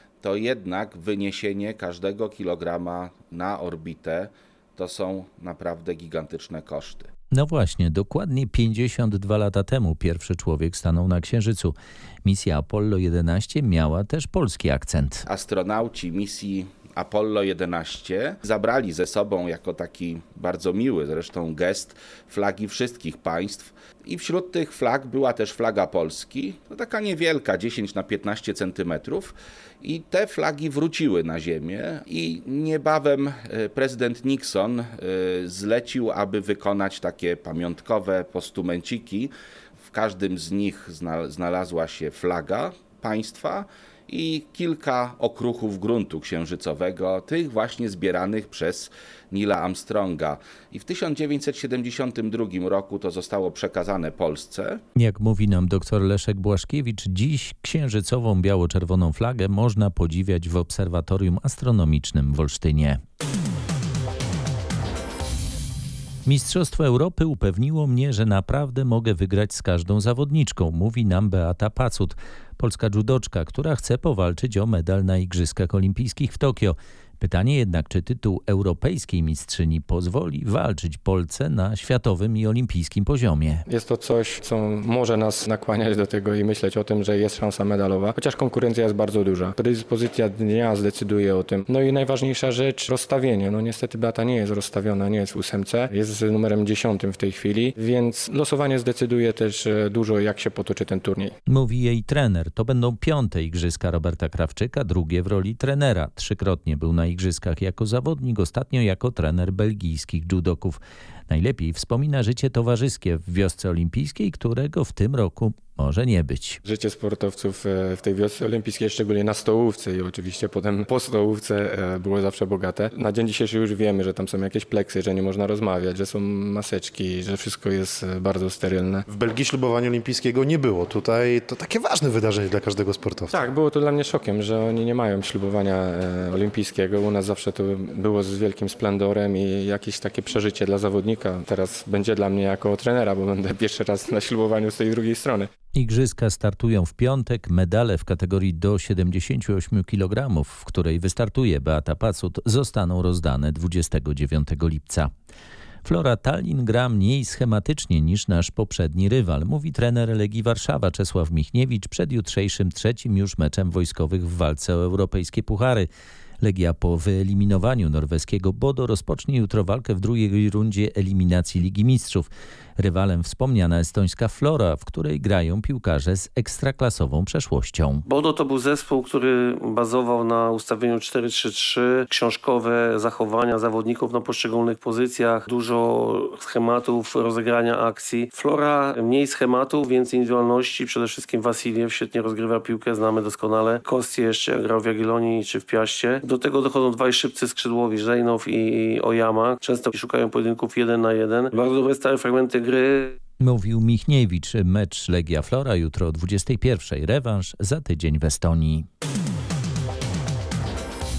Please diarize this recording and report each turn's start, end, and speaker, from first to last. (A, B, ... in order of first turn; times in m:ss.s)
0:00.2-0:07.1 A
0:07.3-0:15.2 B
0:15.3-0:54.8 A
0:55.0-1:03.0 B
1:06.2-1:23.6 B
1:23.7-1:41.3 C
1:41.5-1:56.6 B
1:56.6-2:09.0 C
2:09.1-2:13.4 D
2:13.3-2:25.5 C
2:25.7-2:35.1 B
2:35.8-2:45.9 B
2:46.4-2:58.0 B
2:58.1-3:23.2 E
3:23.4-3:28.9 B